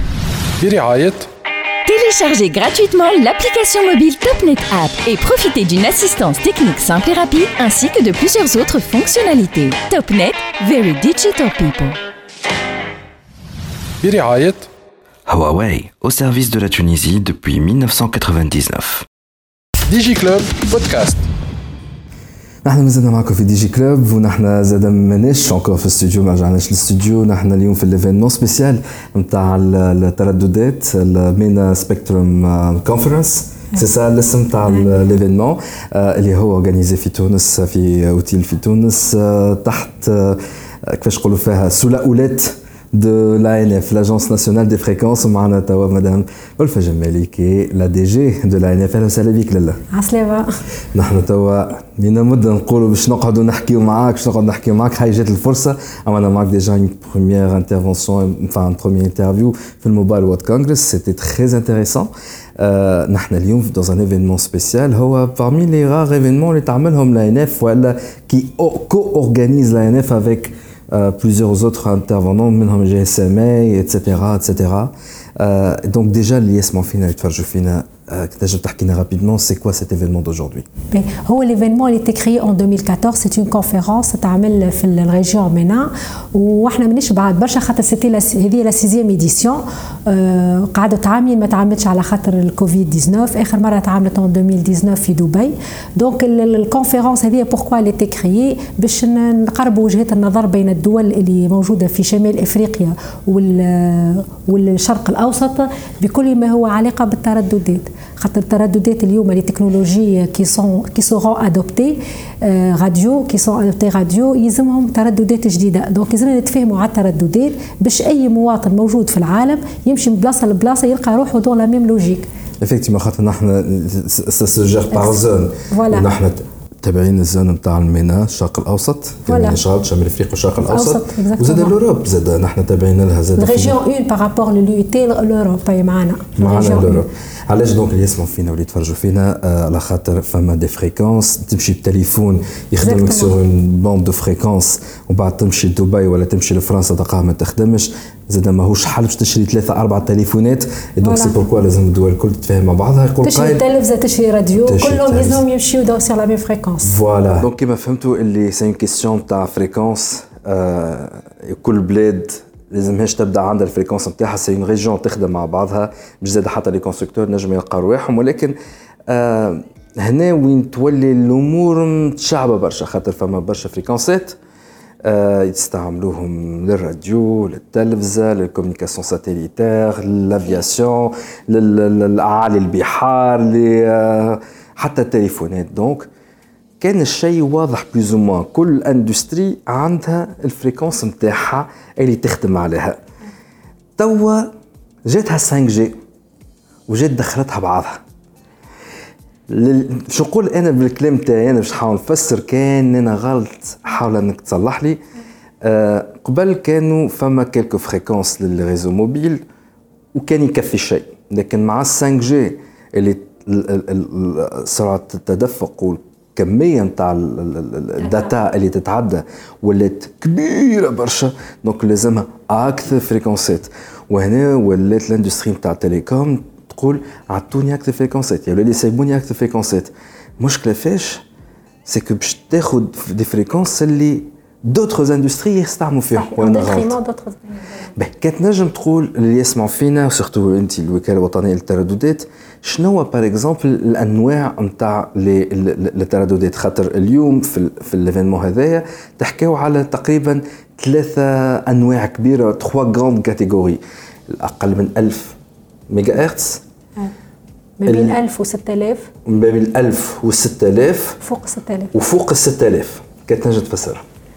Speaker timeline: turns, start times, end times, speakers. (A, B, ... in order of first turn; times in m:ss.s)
0:00.6-0:01.3 A
0:01.9-0:12.0 B
0:14.0-0:14.7 A
0:15.3-0:19.0 C
0:19.9-0:21.2 A
0:22.6-0:49.8 D
0:49.9-0:50.5 E
0:50.9-1:20.7 D
1:20.9-2:02.3 E
2:02.6-2:13.8 D
2:04.9-2:06.1 E
2:09.2-2:09.6 E
2:10.7-2:11.8 E
2:13.4-2:17.1 E
2:16.4-2:33.6 D
2:22.8-2:23.4 E
2:31.0-2:31.4 E
2:33.2-2:37.0 E
2:34.6-2:35.4 D
2:36.8-2:48.5 D
2:49.1-2:54.4 D
2:55.0-3:06.1 D
3:06.8-3:13.0 D
3:14.0-3:14.5 D
3:15.0-3:15.9 D
3:16.9-3:18.0 D
3:19.5-3:25.0 D
3:25.6-3:29.4 D
3:30.1-3:51.2 D
3:51.8-3:57.0 D
3:56.1-3:57.7 E
3:57.9-4:15.4 D
4:15.9-4:16.6 D
4:17.8-4:19.1 E
4:17.9-4:18.2 D
4:19.2-4:21.2 D
4:21.2-4:21.9 E
4:21.9-4:24.0 D